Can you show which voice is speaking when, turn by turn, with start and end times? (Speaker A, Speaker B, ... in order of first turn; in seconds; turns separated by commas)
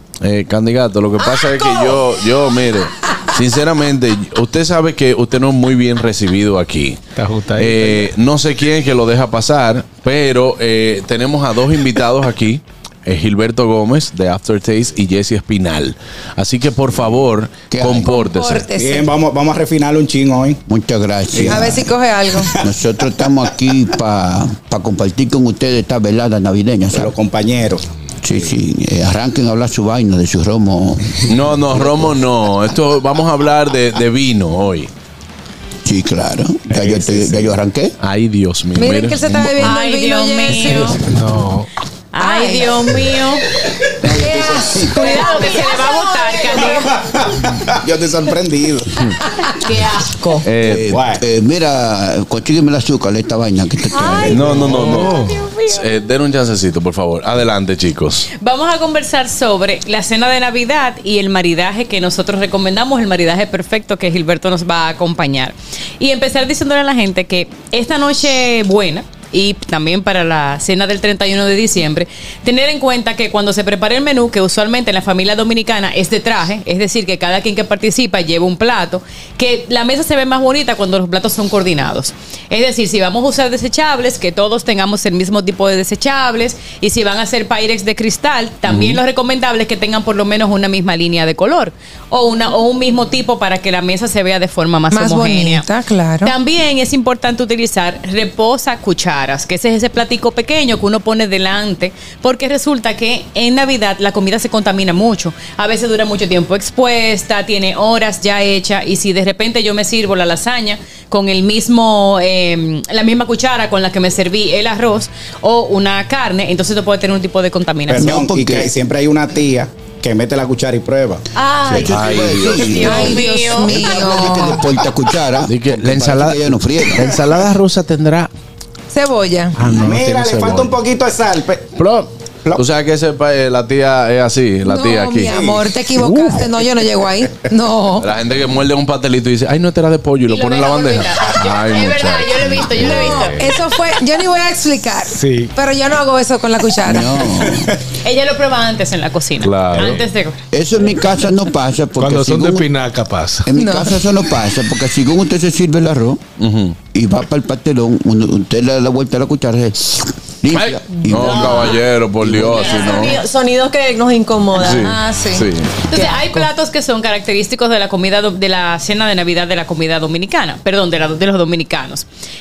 Speaker A: 0.2-7.0, Speaker B: 7.2-8.1, Speaker A: 7.6-18.7, Speaker C: 17.7-18.1, Speaker D: 18.1-19.1, Speaker E: 18.8-20.6, Speaker C: 20.7-21.9, Speaker E: 21.3-23.3, Speaker D: 21.5-22.5, Speaker C: 22.6-27.1, Speaker E: 26.9-28.5, Speaker C: 28.2-32.3, Speaker A: 31.3-34.9, Speaker C: 35.9-38.0, Speaker E: 36.7-37.6, Speaker A: 38.0-39.7, Speaker D: 38.8-41.0, Speaker F: 39.6-41.0, Speaker B: 41.0-41.7, Speaker F: 42.1-43.5, Speaker D: 42.2-42.7, Speaker E: 44.0-44.9, Speaker D: 44.0-45.9, Speaker F: 44.9-46.9, Speaker G: 45.0-45.8, Speaker G: 46.3-46.6, Speaker E: 46.6-49.2, Speaker F: 49.6-50.4, Speaker A: 50.5-50.9, Speaker C: 50.6-54.7, Speaker E: 50.9-51.2, Speaker G: 53.9-54.3, Speaker A: 54.3-58.3, Speaker B: 54.4-55.4, Speaker F: 58.4-95.7, Speaker A: 88.7-89.0, Speaker D: 94.9-96.3, Speaker F: 96.2-118.1, Speaker E: 117.9-121.9, Speaker C: 118.0-118.7, Speaker G: 121.4-121.8, Speaker C: 121.7-127.2, Speaker A: 121.9-122.9, Speaker F: 122.6-123.9, Speaker D: 122.8-124.6, Speaker A: 125.5-128.3, Speaker D: 128.9-129.5, Speaker A: 129.6-130.7, Speaker E: 129.6-131.8, Speaker A: 131.8-135.4, Speaker D: 134.7-138.1, Speaker E: 135.3-135.7, Speaker A: 138.0-143.0, Speaker F: 140.3-143.4, Speaker D: 142.8-147.3, Speaker B: 142.8-143.6, Speaker B: 145.1-145.5, Speaker C: 146.8-147.8, Speaker F: 148.0-150.4, Speaker A: 149.4-150.0, Speaker B: 149.8-150.0, Speaker C: 150.5-152.7, Speaker B: 152.0-153.5, Speaker C: 153.4-156.2, Speaker D: 153.6-154.0, Speaker A: 156.4-156.8, Speaker C: 156.9-162.7, Speaker A: 161.1-163.2, Speaker G: 161.3-161.6, Speaker G: 162.5-164.8, Speaker F: 162.5-163.2, Speaker A: 164.6-165.7, Speaker D: 164.6-165.5, Speaker F: 165.9-172.1